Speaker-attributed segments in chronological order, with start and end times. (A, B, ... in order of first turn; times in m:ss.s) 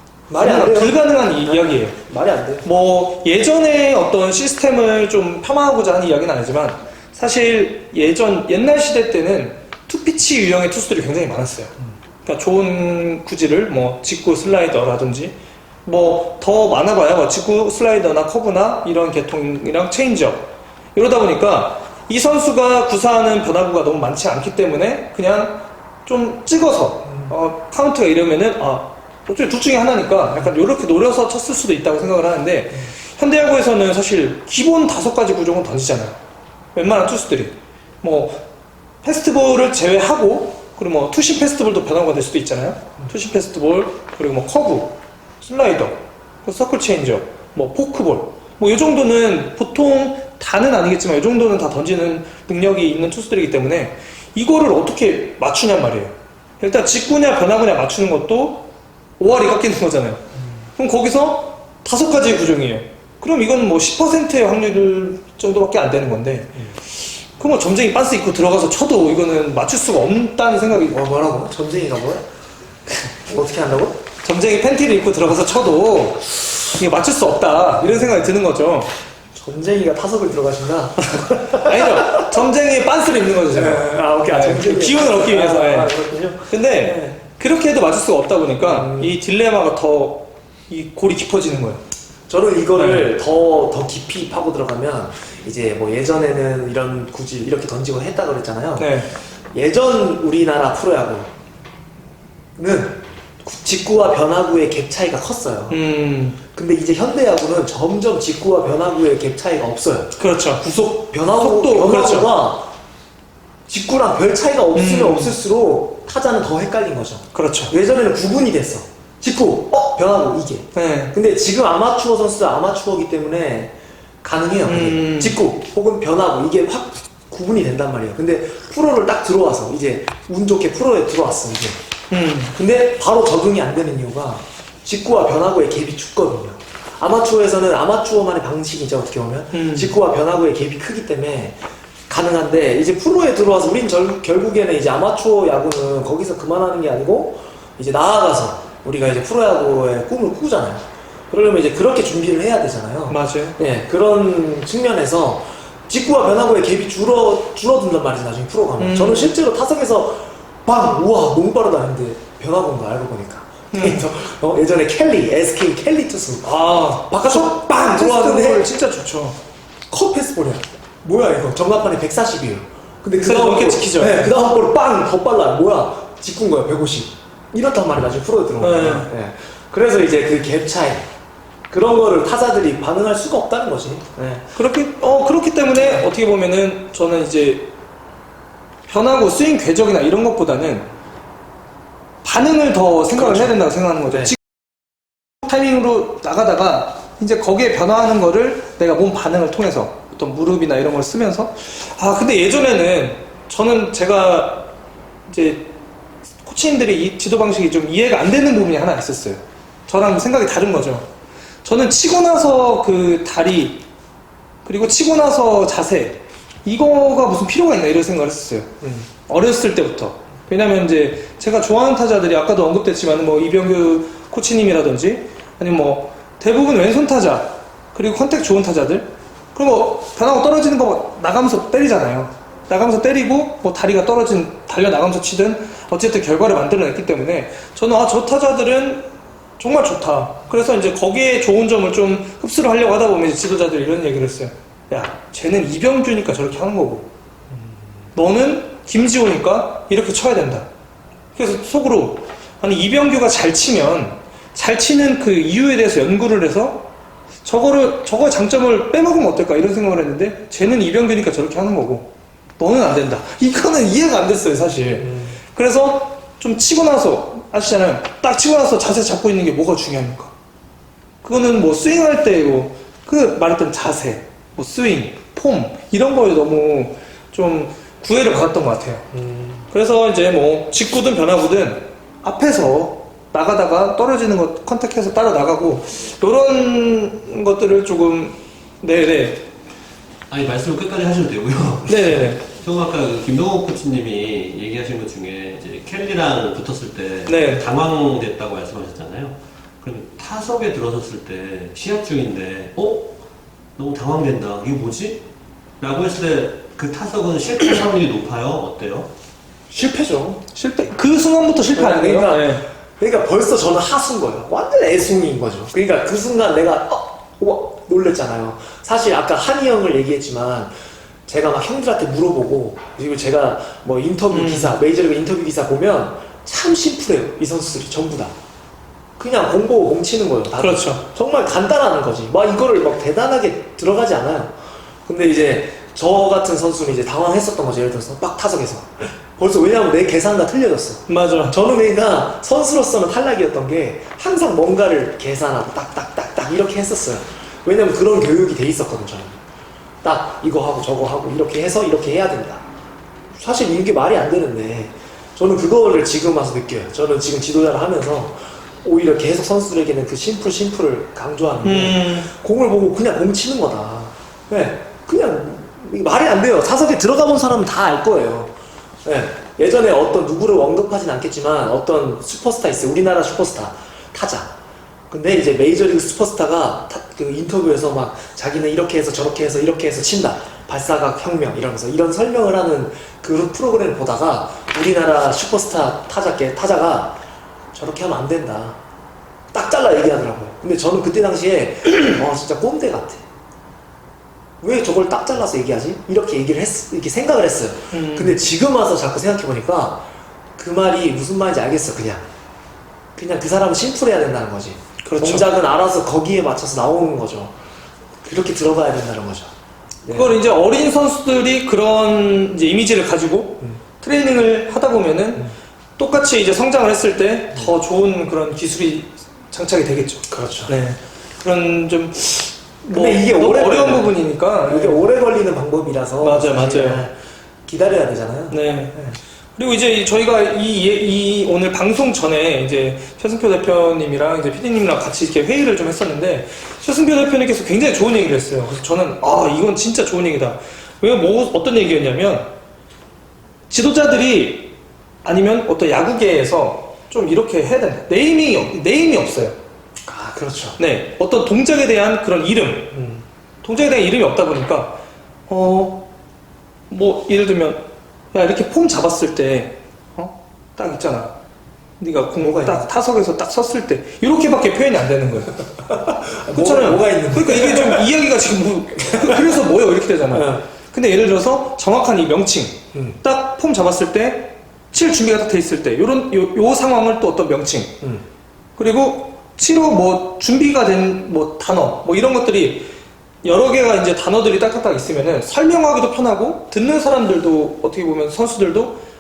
0:00.3-0:02.7 A
0:00.4-0:02.0 B
0:02.6-0:36.2 B
0:27.1-0:27.3 A
0:36.8-0:38.4 B
0:39.0-0:58.7 B
0:59.2-1:00.2 B
1:00.8-1:11.0 B
1:10.7-1:12.2 A
1:13.3-1:14.0 A
1:14.2-1:18.9 B
1:17.9-1:18.2 A
1:19.3-1:22.4 A
1:21.1-1:25.9 B
1:23.5-1:27.2 A
1:26.5-1:31.8 B
1:28.6-1:29.2 A
1:32.3-1:39.0 A
1:32.8-1:33.1 B
1:38.8-1:39.1 B
1:39.5-1:41.3 A
1:42.6-1:45.8 A
1:45.7-1:46.4 B
1:46.5-1:50.2 A
1:50.2-1:52.3 B
1:51.1-1:52.7 A
1:53.7-2:11.8 A
1:54.7-1:55.4 B
1:57.3-1:57.7 B
2:00.7-2:01.1 B
2:04.7-2:05.4 B
2:12.1-2:12.6 B
2:12.5-2:48.7 A
2:19.5-2:20.0 B
2:33.1-2:33.6 B
2:38.8-2:39.4 B
2:43.7-2:44.1 B
2:46.4-2:49.4 B
2:49.9-3:01.1 A
2:53.2-2:54.3 B
2:58.6-2:59.1 B
3:01.7-3:04.5 A
3:04.6-3:07.7 B
3:05.7-3:06.1 A
3:08.9-3:10.9 B
3:12.2-3:14.4 B
3:13.2-3:14.4 A
3:15.4-3:24.7 B
3:25.3-3:25.7 B
3:26.4-3:31.1 B
3:31.6-3:33.8 B
3:34.6-4:07.1 B
3:38.8-3:39.1 A
4:07.5-4:07.8 A
4:08.2-4:10.7 B
4:11.4-4:16.9 B
4:17.4-4:30.3 B
4:25.0-4:25.4 A
4:31.2-4:39.1 B
4:39.1-4:39.7 A
4:39.7-4:49.4 B
4:50.3-5:03.1 C
4:51.9-4:52.4 B
4:57.3-4:57.6 B
5:03.8-5:05.2 C
5:05.8-5:09.1 C
5:09.7-5:10.4 A
5:10.5-5:12.7 B
5:11.7-5:20.7 A
5:21.3-5:28.3 A
5:24.3-5:24.8 B
5:29.2-5:49.4 A
5:30.6-5:31.0 B
5:41.1-5:41.6 B
5:50.0-5:52.6 A
5:53.3-6:14.5 A
6:01.6-6:02.3 B
6:15.1-6:27.2 A
6:27.7-6:28.8 A
6:29.5-6:33.2 A
6:34.6-6:42.2 A
6:37.9-6:38.4 B
6:43.2-6:47.6 A
6:45.0-6:45.5 B
6:48.2-6:49.5 A
6:50.0-6:50.4 A
6:50.1-7:05.1 B
7:00.3-7:00.7 A
7:02.9-7:09.2 A
7:06.2-7:07.0 B
7:08.5-7:09.0 B
7:09.6-7:22.5 B
7:23.7-7:24.7 B
7:25.2-7:29.6 B
7:30.0-7:30.8 A
7:30.8-7:33.0 B
7:32.9-7:33.2 A
7:33.6-7:36.1 B
7:36.9-7:37.8 B
7:38.3-7:41.3 B
7:42.0-7:45.6 B
7:42.4-7:42.9 A
7:45.8-7:48.1 A
7:46.4-7:58.0 B
7:49.0-7:49.6 A
7:50.3-7:50.6 A
7:58.8-8:02.9 B
8:03.4-8:09.0 B